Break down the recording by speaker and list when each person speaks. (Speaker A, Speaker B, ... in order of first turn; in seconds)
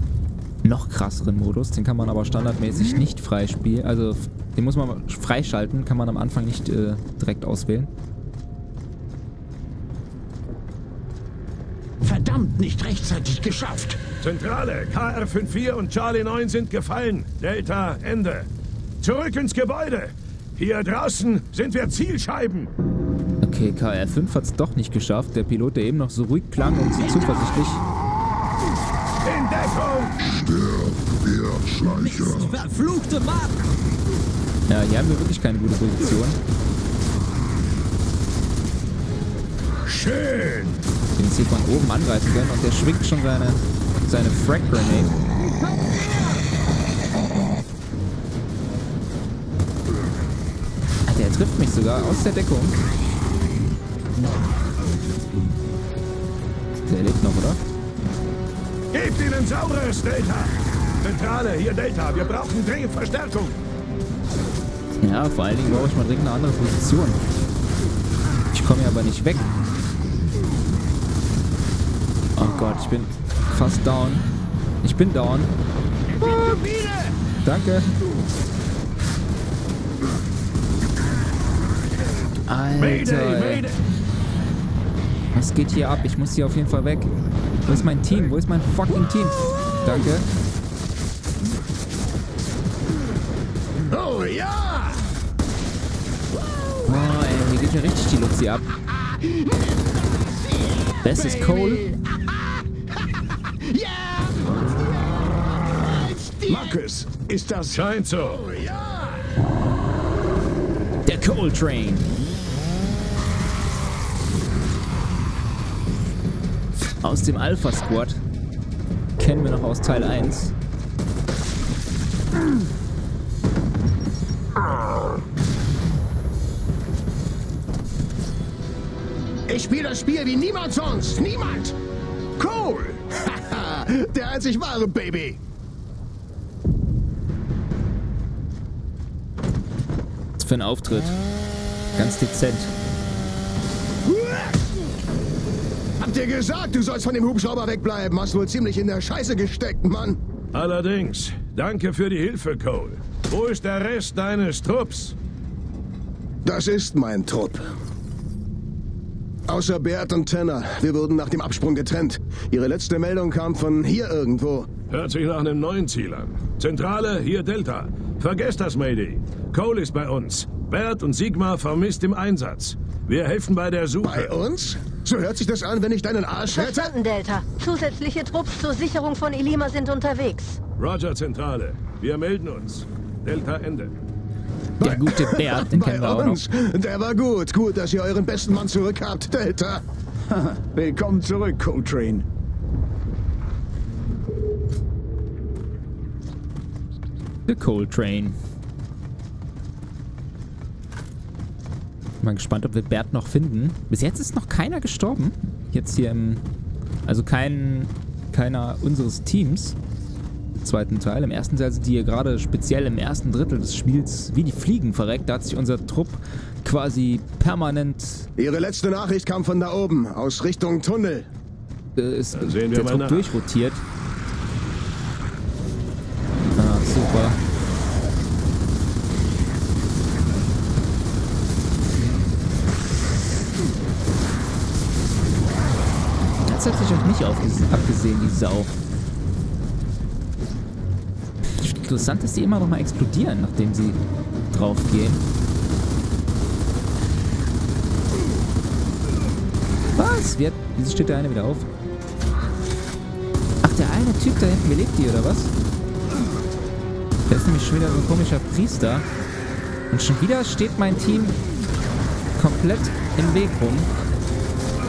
Speaker A: 0.6-7.9, 23.4-27.8, 34.7-36.4, 41.2-45.2, 51.1-52.8, 56.9-57.6, 65.0-67.2, 68.5-69.5, 72.4-74.2, 74.8-75.5, 77.4-77.9, 82.5-83.7, 85.3-87.1, 87.7-90.3, 96.9-98.7, 101.0-101.9, 111.0-112.1, 117.0-118.2, 119.2-120.5, 140.4-141.2, 141.9-142.7, 184.8-186.4, 197.5-198.4, 202.2-206.4, 207.1-209.8, 210.6-218.3, 222.0-223.8, 226.6-227.4, 236.4-238.7, 241.5-245.2, 250.0-251.7, 253.6-255.5, 257.3-259.1, 259.9-261.4, 262.4-263.9
Speaker B: 12.0-14.0, 27.0-27.6, 31.4-33.6, 76.1-77.1, 100.9-101.9, 106.5-108.0, 190.3-192.3
Speaker C: 14.2-18.5, 19.0-22.7, 29.2-30.3, 39.9-40.8, 58.9-63.6, 82.8-83.8, 107.7-108.4, 150.5-155.2, 164.9-174.3, 180.8-183.9, 222.3-223.3
Speaker D: 93.9-95.0, 103.7-106.8, 108.4-109.2, 129.5-131.8, 132.4-135.4, 144.1-144.6, 146.0-150.2, 156.4-157.7, 159.5-164.7, 174.0-176.9, 184.8-189.8, 218.4-221.3
Speaker E: 176.5-180.6